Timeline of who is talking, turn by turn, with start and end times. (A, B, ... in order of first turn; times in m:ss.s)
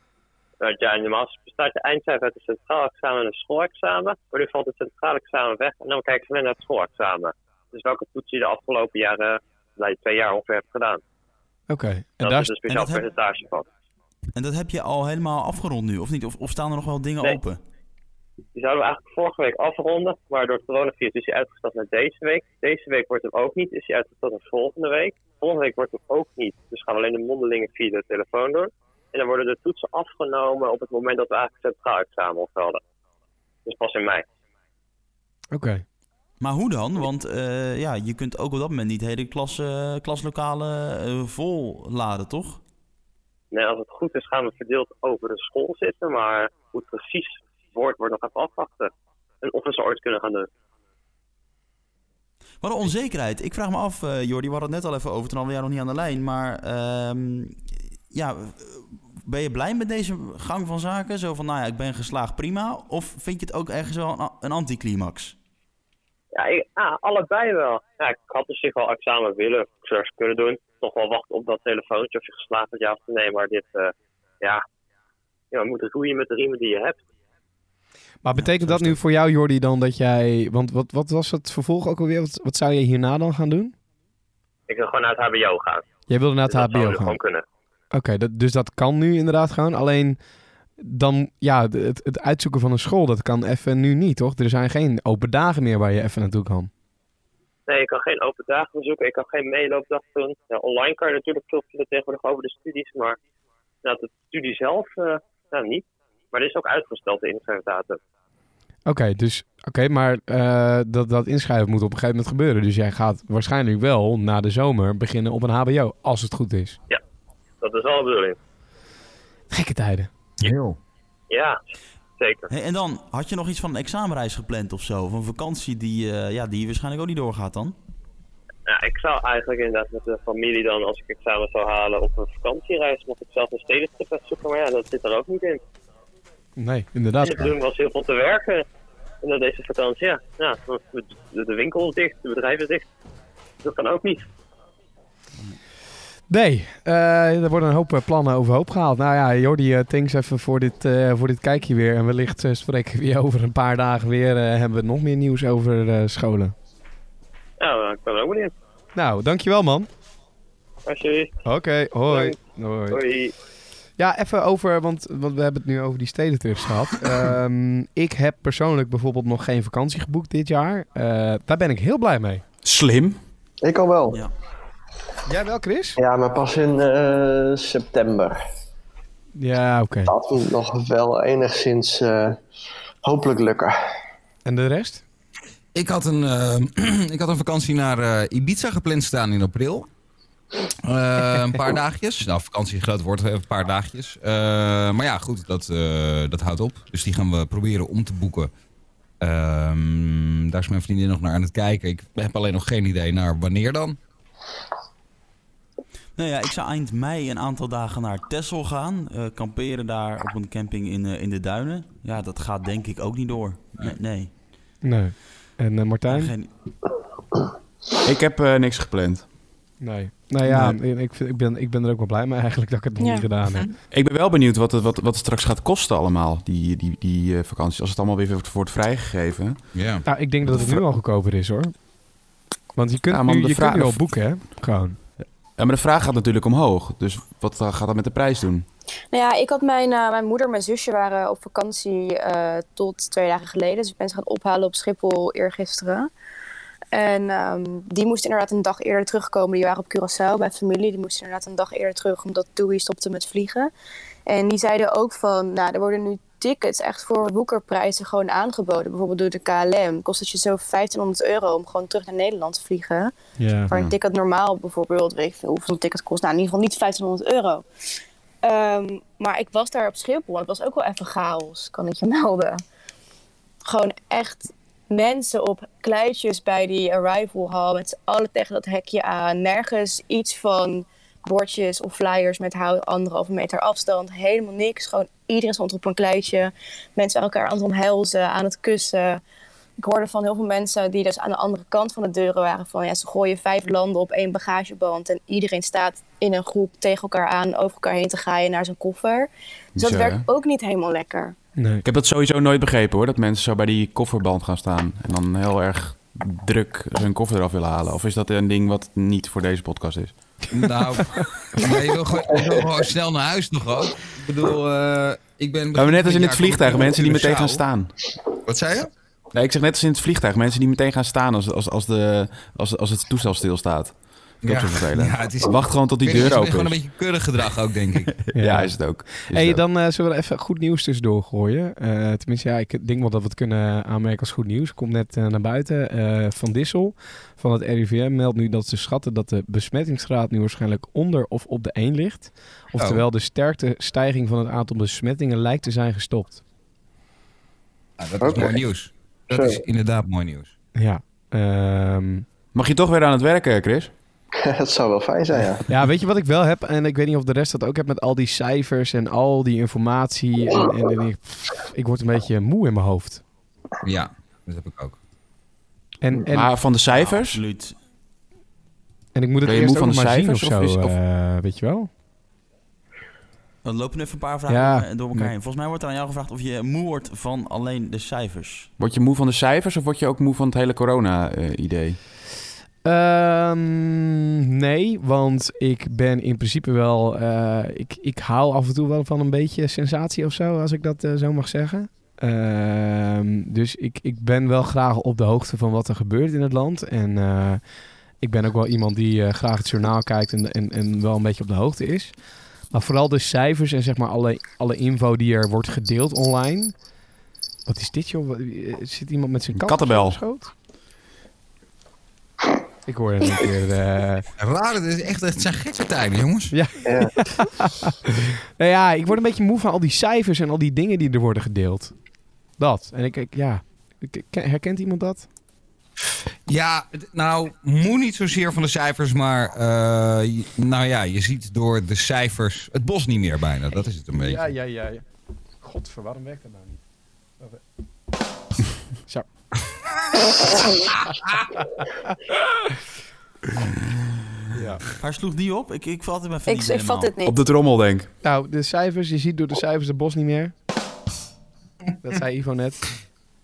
0:00.6-0:11.0 A
0:11.7-0:12.5 B
0:12.2-0:13.7 A
0:12.7-0:13.0 C
0:14.4-0:17.6 C
0:18.6-0:32.8 A
0:33.7-0:34.2 A
0:35.5-0:35.8 B
0:36.4-0:42.6 C
0:43.5-0:48.9 A
0:49.4-0:50.5 A
0:52.6-1:05.4 C
1:06.4-1:14.6 A
1:15.5-1:17.0 A
1:18.2-1:23.7 B
1:18.4-1:19.0 C
1:24.7-1:25.9 A
1:26.1-1:27.2 B
1:26.5-1:27.4 A
1:27.9-1:30.2 B
1:30.8-1:36.7 B
1:37.7-1:43.2 A
1:43.8-1:48.0 A
1:48.9-1:56.8 B
1:57.6-1:58.4 A
1:59.5-2:00.1 B
2:00.4-2:00.8 D
2:01.3-2:01.6 A
2:02.2-2:02.5 A
2:02.5-2:07.8 C
2:08.7-2:15.6 A
2:16.6-2:17.5 B
2:17.2-2:18.6 A
2:19.2-2:22.9 A
2:23.6-2:24.2 A
2:26.3-2:36.6 B
2:37.6-2:38.5 A
2:39.0-2:39.9 B
2:40.9-2:41.4 A
2:41.4-2:43.0 B
2:42.1-2:43.3 A
2:44.0-2:52.4 B
2:52.6-2:53.2 E
2:53.6-2:54.2 F
2:55.3-2:56.0 B
2:56.0-2:58.4 F
2:59.4-3:00.1 B
3:00.1-3:02.4 F
3:03.0-3:03.7 F
3:04.4-3:05.0 B
3:05.7-3:09.9 D
3:10.9-3:18.5 D
3:19.2-3:24.0 D
3:26.2-3:34.3 C
3:34.8-3:36.3 B
3:36.1-3:36.5 C
3:38.0-3:39.3 E
3:39.8-3:43.7 B
3:40.5-3:40.8 D
3:43.0-3:43.3 G
3:43.9-3:49.6 E
3:49.7-3:50.7 D
3:50.1-3:51.7 B
3:50.5-3:50.8 E
3:52.8-3:55.1 B
3:53.1-3:54.1 E
3:55.6-3:58.7 E
3:59.1-4:06.1 G
4:06.9-4:13.7 G
4:14.3-4:23.1 G
4:23.4-4:23.7 B
4:23.7-4:27.6 G
4:28.4-4:32.6 G
4:33.7-4:49.2 G
4:49.8-5:01.4 G
4:59.8-5:00.2 E
5:01.6-5:01.8 B
5:01.8-5:10.2 E
5:10.5-5:17.6 D
5:10.6-5:11.3 B
5:15.8-5:17.9 E
5:18.5-5:18.9 D
5:19.3-5:26.8 E
5:24.4-5:28.2 D
5:28.0-5:29.6 E
5:28.4-5:46.4 B
5:42.8-5:43.0 D
5:48.0-5:50.5 D
5:48.2-5:48.7 F
5:49.3-5:49.6 F
5:50.8-5:52.3 B
5:52.5-5:53.9 E
5:54.4-5:55.6 F
5:55.7-6:03.2 B
6:03.8-6:05.0 D
6:06.0-6:06.6 B
6:06.3-6:07.4 E
6:06.9-6:07.8 C
6:09.2-6:11.9 B
6:09.4-6:11.0 E
6:13.6-6:18.7 C
6:14.5-6:15.3 B
6:18.8-6:22.0 E
6:22.8-6:46.8 B
6:47.7-6:50.5 B
6:49.5-6:50.2 E
6:52.9-6:54.2 B
6:54.4-6:56.7 D
6:56.5-7:02.0 B
6:56.8-6:57.1 F
7:02.6-7:05.3 B
7:06.5-7:14.5 D
7:14.2-7:15.0 B
7:15.6-7:16.8 B
7:21.6-7:22.1 B
7:24.5-7:24.8 B
7:25.0-7:27.1 C
7:26.5-7:27.4 G
7:27.2-7:28.1 E
7:28.2-7:30.5 B
7:32.0-7:33.0 B